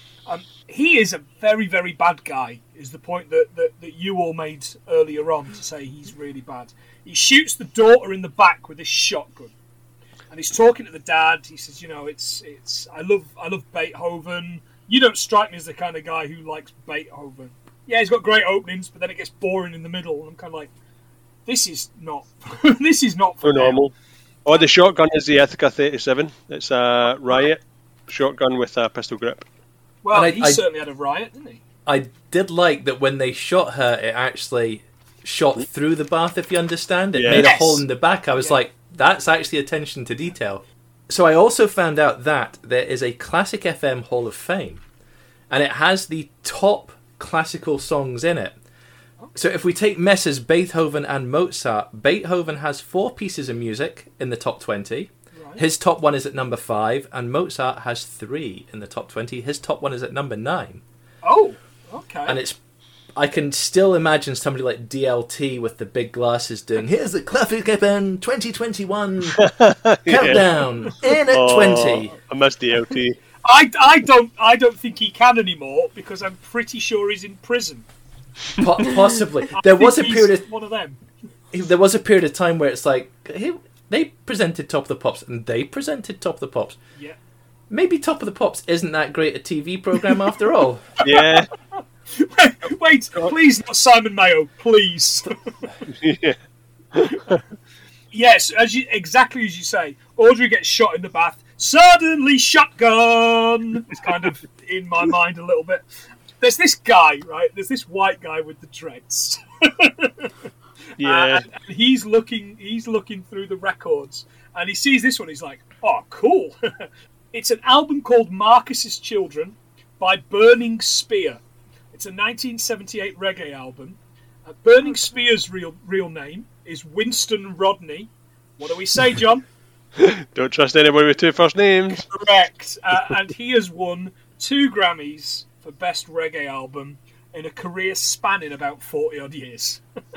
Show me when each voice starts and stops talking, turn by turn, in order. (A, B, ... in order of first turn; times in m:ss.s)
0:00.3-0:09.5 A
0:10.3-0:20.7 A
0:21.5-0:23.8 A
0:23.4-0:23.9 B
0:24.4-0:29.4 B
0:24.5-0:24.8 A
0:30.0-0:31.6 A
0:30.1-0:30.6 C
0:31.9-0:44.8 C
0:37.2-0:37.6 B
0:37.3-0:38.6 A
0:45.5-0:48.6 C
0:49.4-1:00.8 C
0:55.3-0:55.6 A
1:01.2-1:02.4 A
1:02.3-1:02.6 C
1:03.2-1:09.4 C
1:09.4-1:10.5 B
1:10.1-1:12.1 C
1:11.3-1:13.2 B
1:13.4-1:17.9 A
1:18.6-1:20.4 C
1:19.5-1:21.0 A
1:21.5-1:26.8 C
1:27.7-1:30.9 C
1:31.0-1:31.5 B
1:31.0-1:31.4 A
1:32.2-1:35.4 A
1:35.9-1:36.4 B
1:36.9-1:37.4 B
1:37.1-1:37.4 A
1:38.1-1:45.8 A
1:46.4-1:50.3 A
1:51.0-1:51.5 B
1:51.0-1:56.7 A
1:57.3-2:01.4 A
2:01.9-2:09.4 A
2:10.0-2:12.1 B
2:11.9-2:19.8 A